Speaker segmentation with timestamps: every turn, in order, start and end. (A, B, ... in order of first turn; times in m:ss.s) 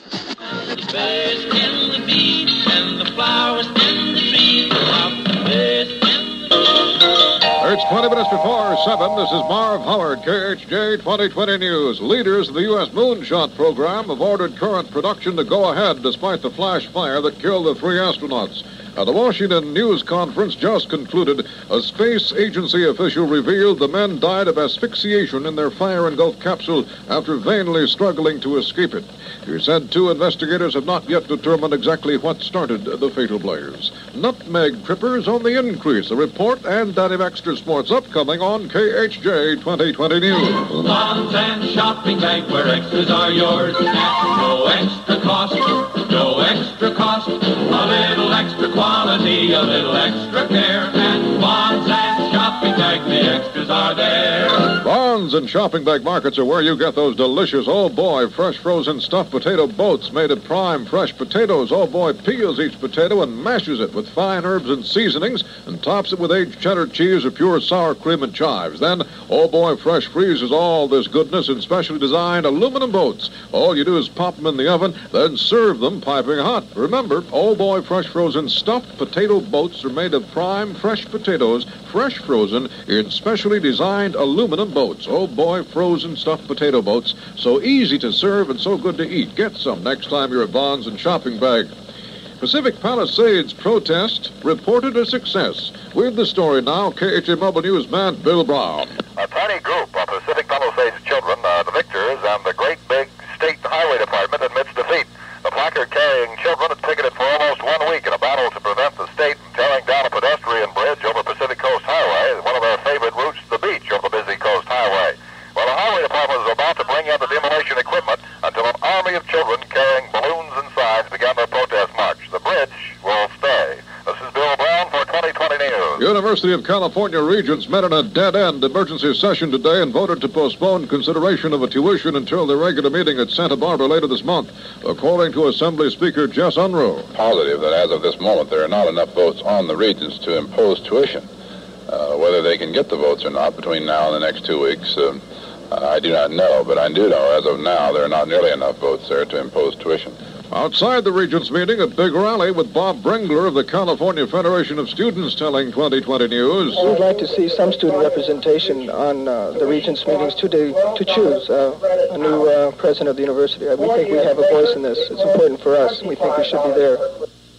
0:00.7-0:06.5 A
0:07.6-0:40.7 B
0:40.8-0:54.7 A
0:54.8-1:31.7 B
1:32.4-1:39.0 B
1:39.2-2:06.0 C
2:06.0-2:17.1 B
2:17.2-2:21.2 D
2:21.9-2:25.2 D
2:25.7-2:30.1 D
2:30.5-2:36.9 B
2:36.8-2:47.1 E